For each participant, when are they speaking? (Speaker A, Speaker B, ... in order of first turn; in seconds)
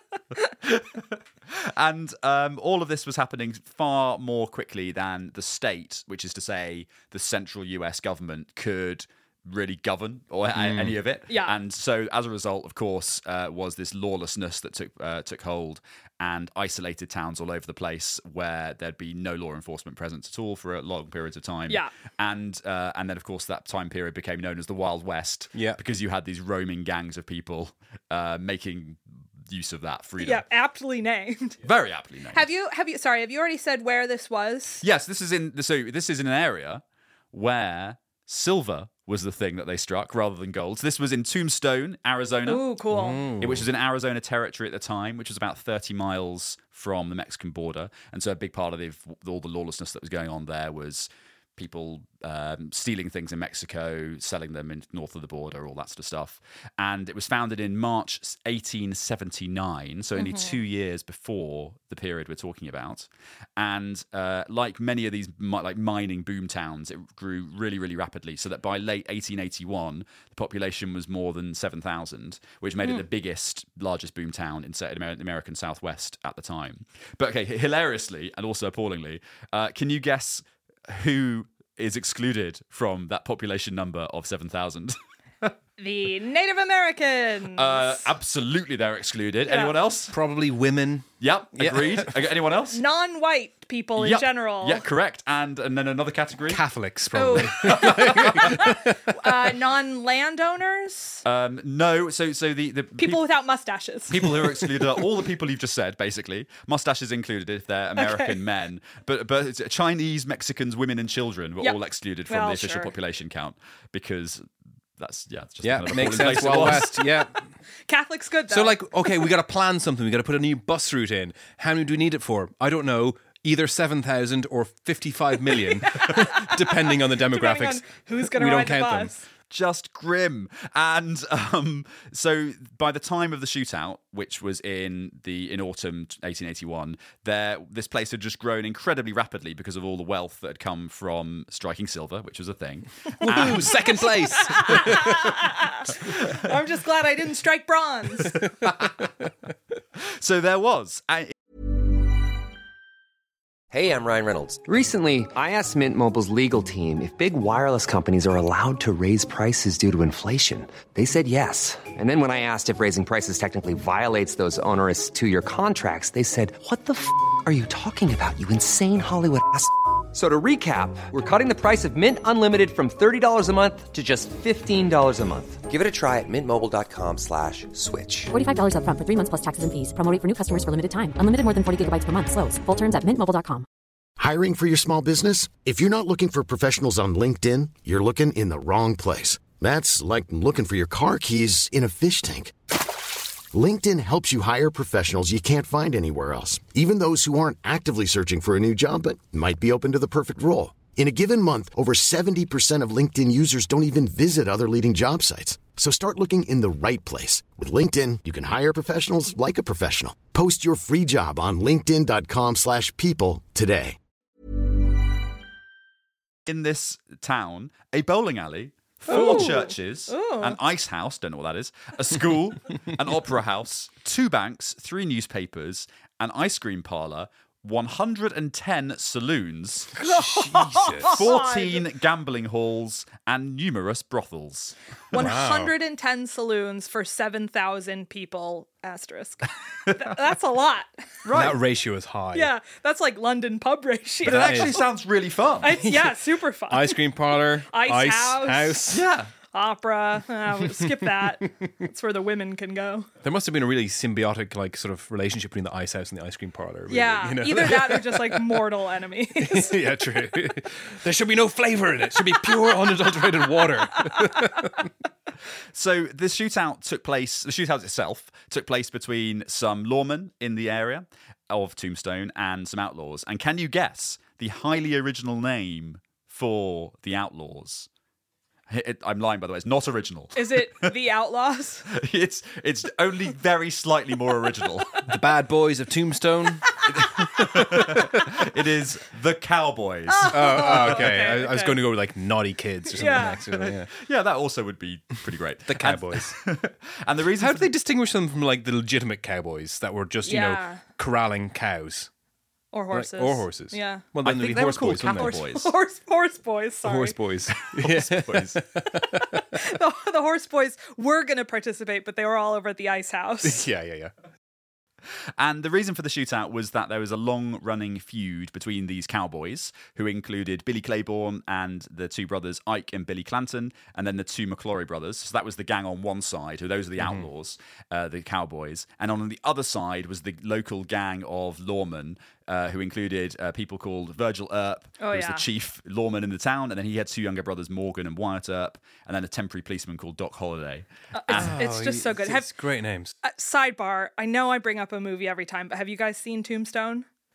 Speaker A: 0.6-30.4, 31.6-32.4, 34.8-42.6, 43.4-85.5, 87.5-90.1, 91.2-92.8, 94.0-96.6, 97.4-98.5, 101.2-103.2, 104.1-117.0, 129.5-144.1, 150.2-151.3, 216.4-230.0, 231.0-234.8, 241.2-241.6, 244.2-245.9, 248.9-249.3, 265.7-277.9, 278.7-280.9, 281.9-285.1, 286.9-291.1, 293.9-297.7, 304.2-305.7, 307.6-308.6, 315.4-341.5
Speaker B: 10.5-11.0, 25.5-25.8, 42.9-43.7, 90.1-92.2, 96.5-99.2, 115.6-117.5, 118.5-129.2, 143.2-145.4, 148.6-149.0, 230.0-231.2, 235.1-235.7, 241.3-242.5, 244.2-244.8, 245.8-246.2, 246.7-249.0, 250.8-251.3, 253.2-258.7, 259.4-264.9, 285.1-288.2, 290.3-293.9, 295.6-296.4, 297.4-302.1, 302.9-305.4, 306.8-309.4, 313.4-314.1, 327.0-327.3, 341.3-343.1
Speaker C: 11.3-11.5, 30.2-31.6, 32.3-34.8, 42.5-43.3, 60.1-60.6, 85.8-88.1, 89.5-89.8, 92.7-94.8, 97.1-101.2, 103.0-104.8, 108.0-108.4, 111.6-112.9, 117.9-119.2, 125.9-129.2, 143.2-148.5, 219.1-220.6, 230.0-231.9, 235.1-241.0, 242.3-244.9, 245.6-247.0, 247.7-248.9, 249.5-253.1, 256.9-259.8, 262.4-263.1, 264.0-264.4, 280.3-281.8, 290.1-291.8, 292.9-293.7, 300.2-300.8, 302.7-304.0, 305.1-307.1, 309.5-313.6, 335.0-335.4, 341.1-342.5, 343.2-347.1
Speaker D: 153.7-178.3
Speaker E: 178.3-183.6
Speaker F: 184.2-192.5, 193.5-213.9